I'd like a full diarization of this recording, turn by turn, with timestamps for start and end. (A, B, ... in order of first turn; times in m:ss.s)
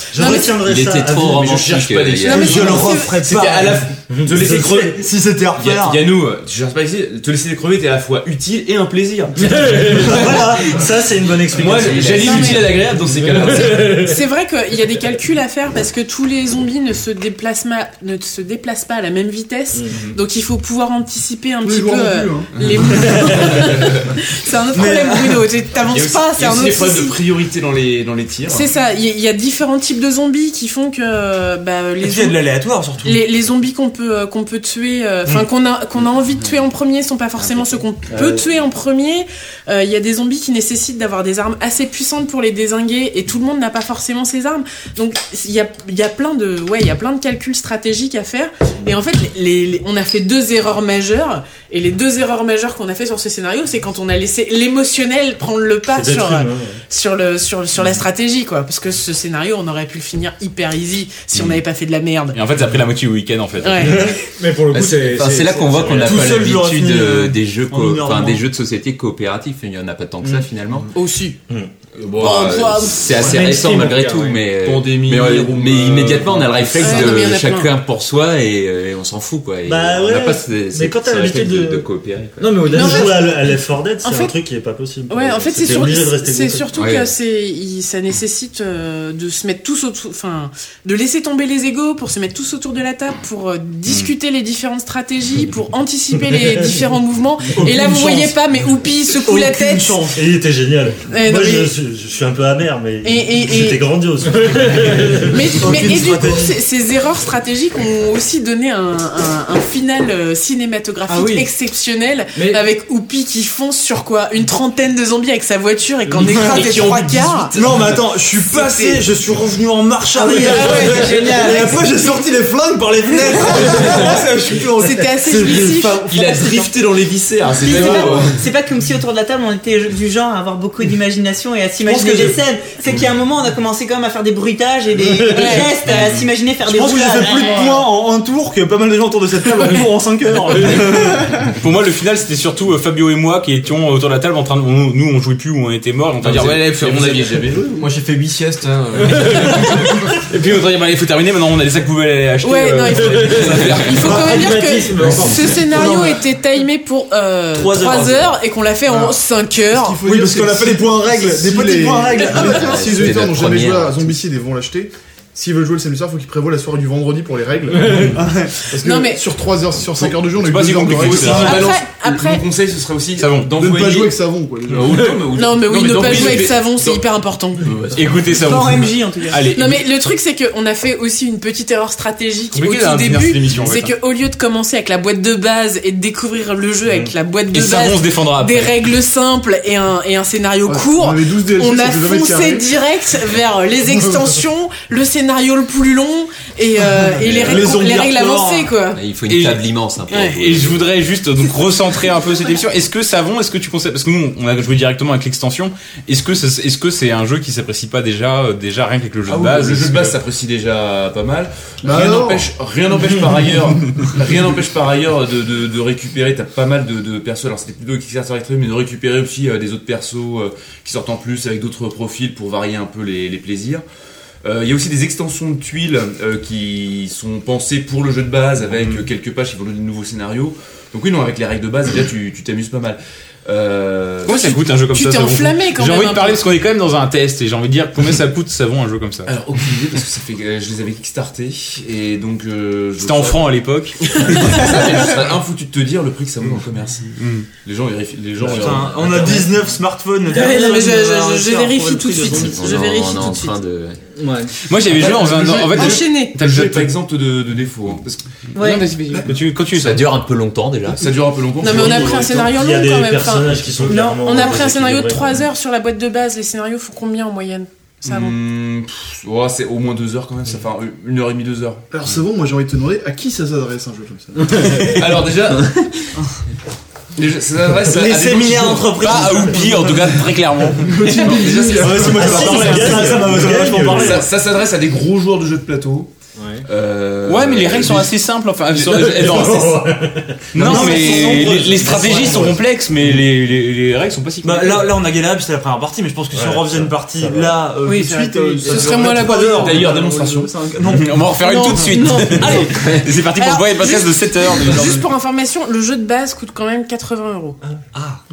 0:00.1-0:01.8 A
0:00.2-0:00.6 B
0:00.6-0:02.6 C
0:01.4-0:05.0 D
0:02.2-0:03.2 B
0:02.3-0:03.9 E
0:04.1-0:05.0 A
0:04.4-0:06.0 E
0:05.6-0:10.6 D
0:09.6-0:12.8 A
0:11.5-0:14.0 D
0:12.1-0:12.8 B
0:13.5-0:27.3 B
0:21.6-0:23.2 F
0:22.6-0:22.9 D
0:23.5-0:24.0 D
0:24.8-0:25.4 E
0:25.8-0:28.7 D
0:28.4-0:32.4 B
0:32.0-0:33.2 E
0:33.0-1:02.4 B
0:56.0-0:56.8 A
1:02.3-1:04.2 G
1:03.6-1:04.1 B
1:04.1-1:06.4 H
1:04.7-1:10.9 C
1:06.0-1:08.4 E
1:10.9-1:11.4 B
1:12.0-1:12.9 D
1:12.2-1:13.2 B
1:12.3-1:22.6 C
1:13.2-1:14.4 H
1:14.6-1:17.2 D
1:16.8-1:17.7 B
1:19.7-1:21.8 A
1:22.4-1:26.8 A
1:22.4-1:23.1 H
1:22.7-1:23.4 B
1:24.0-1:24.4 B
1:25.1-1:40.1 B
1:26.7-1:27.1 C
1:37.6-1:38.4 E
1:39.1-1:40.2 E
1:40.2-1:45.5 A
1:41.1-1:41.7 B
1:43.0-1:43.8 B
1:45.2-1:57.6 B
1:45.6-1:46.6 E
1:51.1-1:51.4 E
1:52.4-1:52.6 H
1:56.2-1:56.6 E
1:56.5-1:57.9 D
1:57.6-2:06.7 E
1:58.5-1:59.0 B
2:00.2-2:01.8 I
2:00.3-2:01.6 B
2:03.5-2:04.1 B
2:04.8-2:06.6 B
2:06.1-2:08.4 D
2:07.6-2:17.8 I
2:11.8-2:12.4 E
2:15.2-2:16.2 B
2:16.7-2:21.5 E
2:21.5-2:27.5 G
2:26.2-2:27.9 D
2:27.8-2:29.8 J
2:30.0-2:34.3 G
2:32.4-2:40.0 B
2:33.6-2:34.1 D
2:34.1-2:35.8 H
2:35.6-2:36.2 E
2:37.5-2:38.3 E
2:38.9-2:39.2 F
2:39.7-2:51.6 F
2:40.0-2:43.0 E
2:42.2-2:42.5 B
2:42.7-2:44.2 C
2:48.1-2:48.5 E
2:48.7-2:49.2 B
2:50.0-2:51.7 G
2:51.0-2:54.1 D
2:51.2-2:52.5 B
2:53.2-2:53.5 G
2:53.5-2:55.1 F
2:54.7-2:57.0 D
2:55.2-2:57.7 B
2:56.0-2:56.5 G
2:57.6-2:58.7 D
2:57.9-2:59.8 G
2:58.4-2:59.4 I
2:59.5-3:19.0 B
3:02.5-3:04.0 G
3:07.5-3:08.8 G
3:10.7-3:12.8 F
3:17.4-3:18.7 E
3:19.0-3:20.8 C
3:19.3-3:19.6 G
3:20.1-3:20.4 B
3:20.2-3:30.2 G
3:29.3-3:43.8 D
3:31.8-3:32.5 F
3:44.4-3:54.5 D
3:48.7-3:49.0 G
3:54.3-3:59.3 G
3:54.3-3:56.4 B
3:59.3-4:03.6 D
4:03.0-4:04.8 G
4:04.2-4:09.5 D
4:04.2-4:05.1 B
4:07.2-4:07.5 G
4:08.4-4:12.5 E
4:10.3-4:13.6 B
4:10.3-4:10.8 H
4:11.6-4:12.3 H
4:12.3-4:14.0 C
4:14.2-4:14.5 H
4:14.7-4:16.9 G
4:15.3-4:18.2 D
4:15.6-4:16.4 B
4:18.6-4:18.9 I
4:18.6-4:20.1 G
4:19.7-4:21.1 C
4:20.9-4:22.5 D
4:21.6-4:28.4 B
4:22.4-4:25.4 A
4:23.9-4:24.5 I
4:28.0-4:31.8 D
4:31.9-4:35.0 F
4:34.7-4:35.9 D
4:37.2-4:39.4 D
4:37.9-4:40.2 E
4:39.0-4:41.5 G
4:40.8-4:43.2 F
4:41.0-4:43.0 D
4:41.8-4:44.2 E
4:42.0-4:44.3 A
4:43.8-4:46.1 D
4:46.4-4:46.6 H
4:46.6-4:48.1 D
4:47.3-4:50.0 G
4:48.8-4:49.2 D
4:48.9-4:53.2 A
4:50.5-4:54.9 G
4:50.6-4:52.5 E
4:54.4-5:01.2 E
4:56.3-4:57.7 A
4:57.9-4:59.2 J
4:58.6-4:59.9 B
4:59.2-5:00.6 D
4:59.9-5:00.4 J
5:00.8-5:05.1 G
5:01.4-5:02.7 B
5:01.9-5:02.8 E
5:03.3-5:07.6 B
5:07.9-5:08.2 E